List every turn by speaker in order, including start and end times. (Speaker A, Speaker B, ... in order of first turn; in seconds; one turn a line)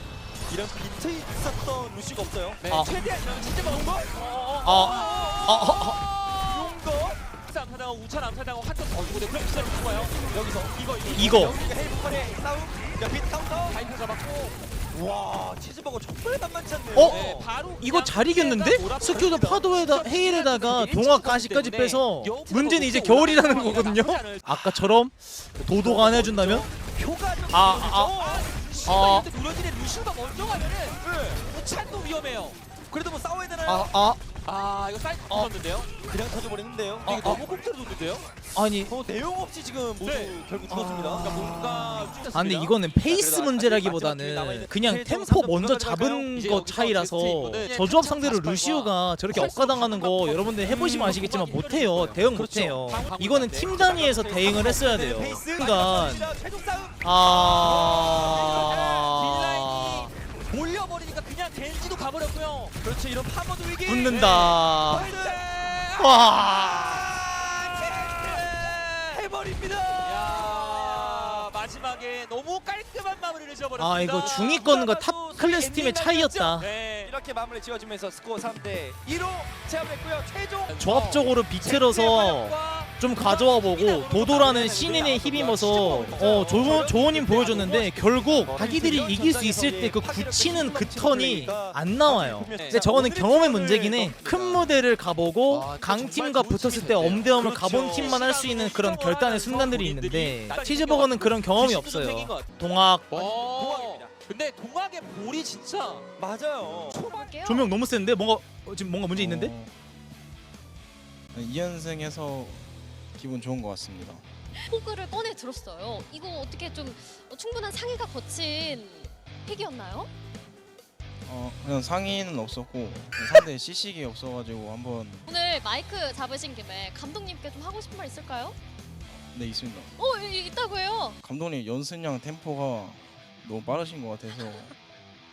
Speaker A: 0.5-2.6
Speaker B: 2.6-6.8
Speaker A: 3.5-5.6
Speaker C: 4.6-6.0
Speaker A: 6.5-7.2
Speaker B: 7.4-11.9
Speaker A: 10.2-13.8
Speaker C: 11.1-11.6
Speaker B: 13.6-14.6
Speaker A: 14.9-17.5
Speaker C: 16.9-17.2
Speaker B: 17.0-24.8
Speaker C: 17.8-26.7
Speaker A: 25.7-28.5
Speaker C: 27.5-28.2
Speaker B: 27.8-32.6
Speaker C: 28.8-29.3
Speaker A: 31.0-31.4
Speaker A: 32.9-33.9
Speaker C: 33.6-34.2
Speaker B: 34.4-35.9
Speaker A: 35.3-37.4
Speaker B: 37.0-38.3
Speaker C: 37.1-37.4
Speaker C: 38.5-38.9
Speaker A: 38.9-41.5
Speaker B: 40.0-40.6
Speaker C: 40.7-56.3
Speaker B: 41.2-42.8
Speaker A: 43.0-46.3
Speaker B: 46.3-54.8
Speaker A: 50.7-51.1
Speaker A: 54.1-59.1
Speaker C: 57.0-60.1
Speaker B: 57.5-62.8
Speaker A: 62.8-65.7
Speaker C: 63.8-65.1
Speaker B: 64.1-66.5
Speaker C: 66.0-67.2
Speaker A: 66.8-71.5
Speaker B: 67.4-68.9
Speaker B: 70.0-74.8
Speaker C: 73.8-76.7
Speaker A: 74.2-76.0
Speaker B: 75.4-77.2
Speaker A: 77.0-80.8
Speaker B: 80.6-86.8
Speaker C: 80.8-103.1
Speaker A: 84.3-94.8
Speaker B: 92.6-92.8
Speaker B: 95.5-102.5
Speaker A: 97.2-98.3
Speaker B: 103.1-106.1
Speaker A: 103.1-104.1
Speaker A: 106.2-107.0
Speaker D: 106.9-107.7
Speaker C: 107.4-109.5
Speaker E: 109.1-109.7
Speaker E: 111.3-114.2
Speaker D: 114.5-120.1
Speaker E: 121.2-125.3
Speaker D: 125.2-128.6
Speaker E: 129.2-129.9
Speaker D: 130.0-131.2
Speaker E: 131.2-134.7